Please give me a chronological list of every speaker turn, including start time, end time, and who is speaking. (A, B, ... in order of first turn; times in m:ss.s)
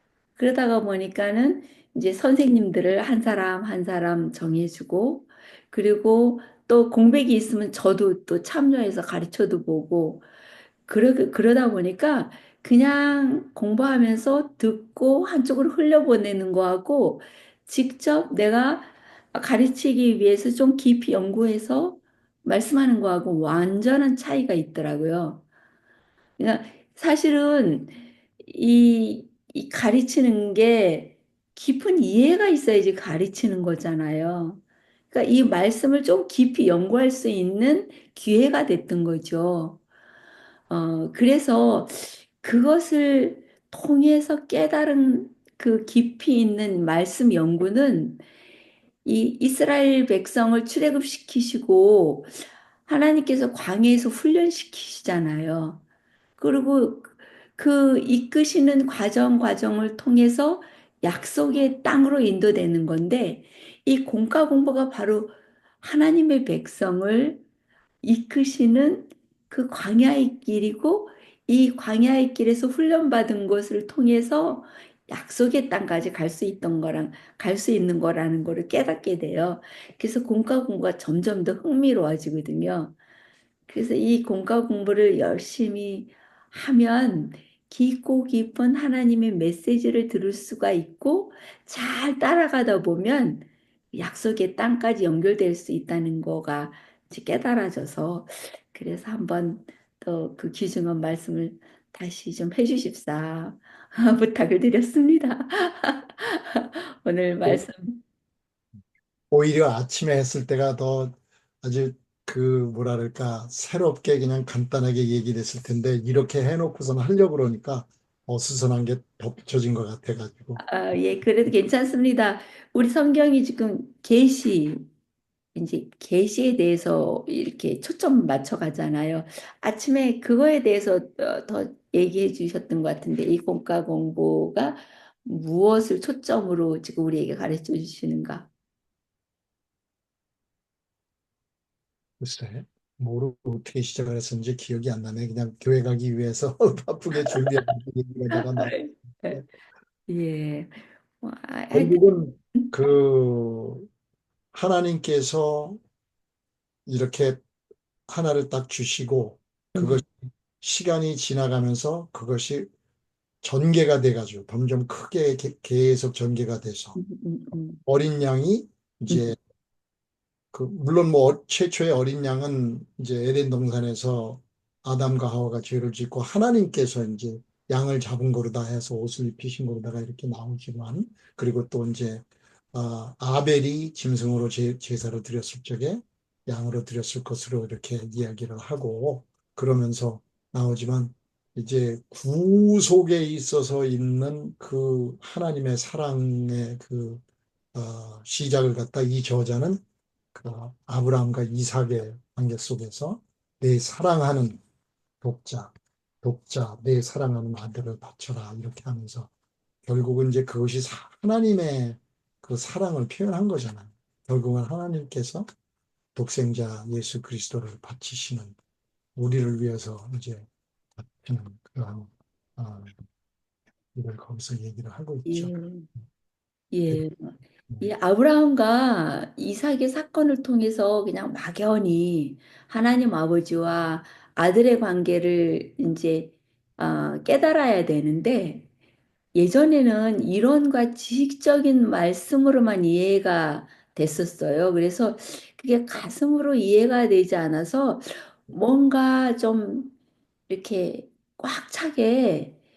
0:00.4-0:10.2 A
0:10.9-0:25.4 A
0:26.4-0:39.8 A
0:40.7-0:48.2 A
0:49.0-0:52.3 A
0:52.8-0:55.8 A
0:56.4-1:07.4 A
1:08.0-1:22.9 A
1:23.7-1:48.0 A
1:49.3-2:00.6 B
2:00.6-2:04.9 A
2:05.5-2:18.5 A
2:22.2-2:29.4 B
2:27.1-2:27.7 A
2:28.3-2:29.4 A
2:30.1-2:32.7 A
2:31.7-2:33.9 B
2:34.5-2:35.8 B
2:36.8-2:37.4 B
2:38.1-2:42.7 B
2:39.7-2:40.0 A
2:43.4-2:47.0 B
2:47.0-2:47.8 A
2:47.8-2:49.4 B
2:49.1-2:49.3 A
2:50.5-3:17.2 B
3:17.7-3:19.8 B
3:20.3-3:24.6 B
3:25.2-3:29.3 B
3:29.8-3:35.4 B
3:36.1-3:38.6 B
3:39.2-3:43.0 B
3:43.9-3:45.6 B
3:45.2-3:45.9 A
3:46.7-3:58.7 A
3:59.3-4:09.9 A
4:10.5-4:12.6 A